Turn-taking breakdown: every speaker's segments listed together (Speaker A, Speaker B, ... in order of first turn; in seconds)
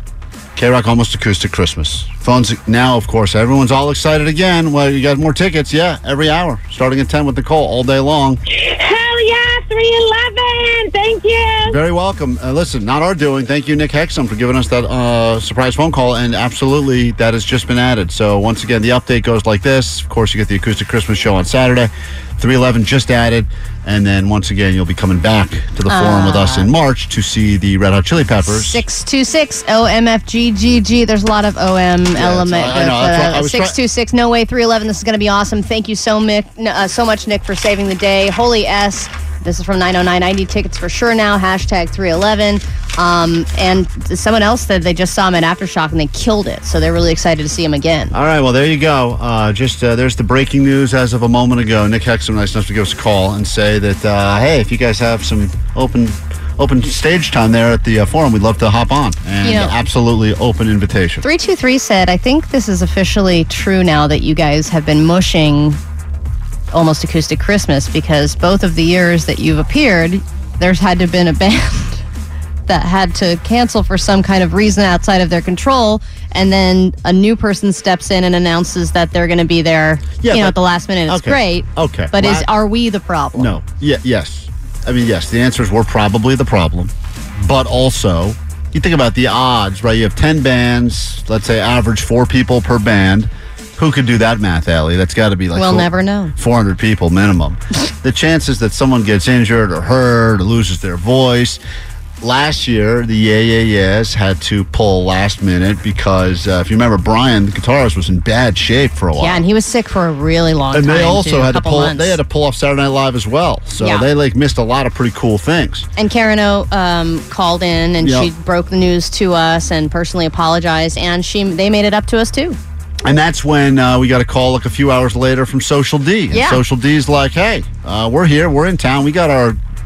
Speaker A: 0.6-8.4, 11.7-28.8, 32.1-33.8, 48.1-61.2, 80.2-82.5, 83.3-101.6, 102.2-109.4, 110.7-115.9, 118.0-118.3, 123.0-129.6
Speaker B: 8.5-11.8
Speaker C: 25.9-26.7, 28.5-48.1, 59.4-59.8, 61.2-65.8, 66.7-72.0, 72.7-83.5, 95.5-96.3, 109.2-112.2, 113.8-114.1, 116.0-122.6, 126.3-126.6